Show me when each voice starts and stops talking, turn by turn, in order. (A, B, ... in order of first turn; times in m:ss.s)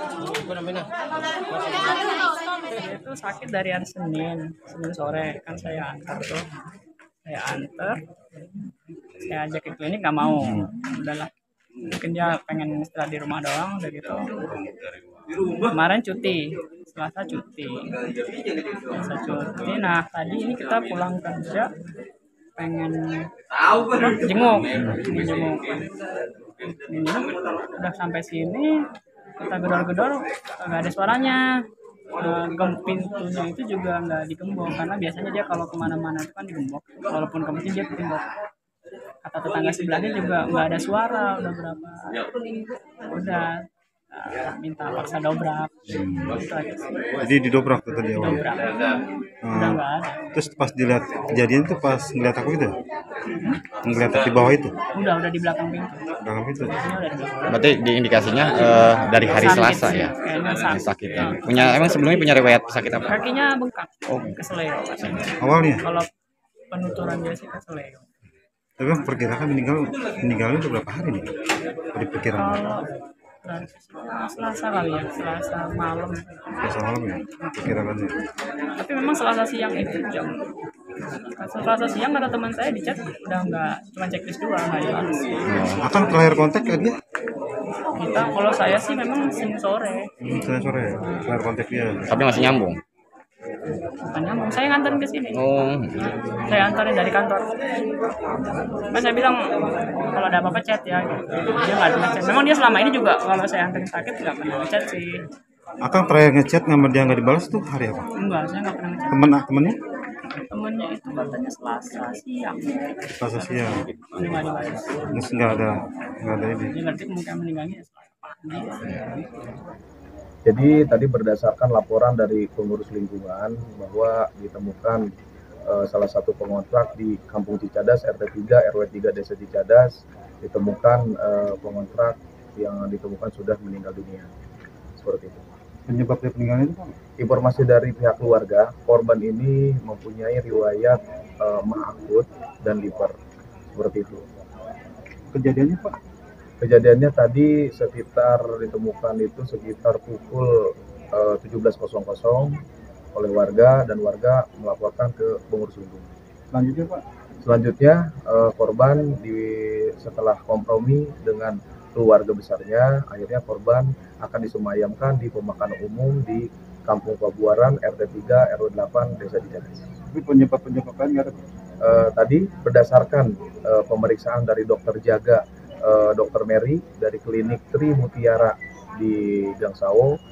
0:02.7-0:06.4 A
0:07.2-0:08.0 A
0:09.1-0:11.3 A
0:11.8-0:14.3 A
0:15.6-0:17.9 A
0:18.9-0:21.7 A
0:22.6-0:23.3 A
0:23.9-0:25.9 A
0:26.6-0:28.7 A
0:29.4-0:31.4 A
0:32.2-0:38.2 A
0:39.2-0:42.2 A
0:43.1-0:43.5 A
0:44.1-0:47.0 A
0:47.2-0:48.4 B
0:48.1-0:48.7 A
0:49.5-0:50.2 A
0:50.4-0:52.7 B
0:53.8-0:54.7 B
0:54.9-0:56.0 A
0:56.3-0:56.7 B
0:56.7-0:57.6 A
0:57.5-1:03.1 C
0:58.5-1:02.3 A
1:03.0-1:06.1 A
1:04.1-1:04.4 C
1:06.7-1:08.1 A
1:09.0-1:11.2 B
1:12.0-1:12.4 D
1:12.0-1:12.4 B
1:12.3-1:12.8 A
1:13.4-1:16.5 A
1:16.7-1:18.2 B
1:18.8-1:20.4 A
1:21.3-1:25.6 A
1:25.4-1:25.8 C
1:25.9-1:26.8 B
1:28.0-1:30.1 A
1:30.3-1:31.9 B
1:30.7-1:31.2 D
1:32.0-1:32.8 C
1:34.0-1:35.4 A
1:35.4-1:36.1 C
1:36.4-1:37.5 A
1:38.9-1:39.5 A
1:40.1-1:45.2 A
1:45.9-1:48.0 B
1:48.2-1:49.3 A
1:49.1-1:49.7 B
1:50.5-1:52.7 A
1:53.2-1:53.5 D
1:53.6-1:55.0 A
1:55.2-1:55.6 B
1:56.4-1:56.7 B
1:56.7-1:59.1 A
2:00.4-2:05.0 D
2:05.7-2:14.3 D
2:15.0-2:16.2 D
2:15.9-2:16.9 B
2:17.2-2:23.1 D
2:23.7-2:24.2 D
2:25.4-2:25.9 B
2:26.6-2:32.6 D
2:33.1-3:00.1 D
2:50.1-2:51.4 B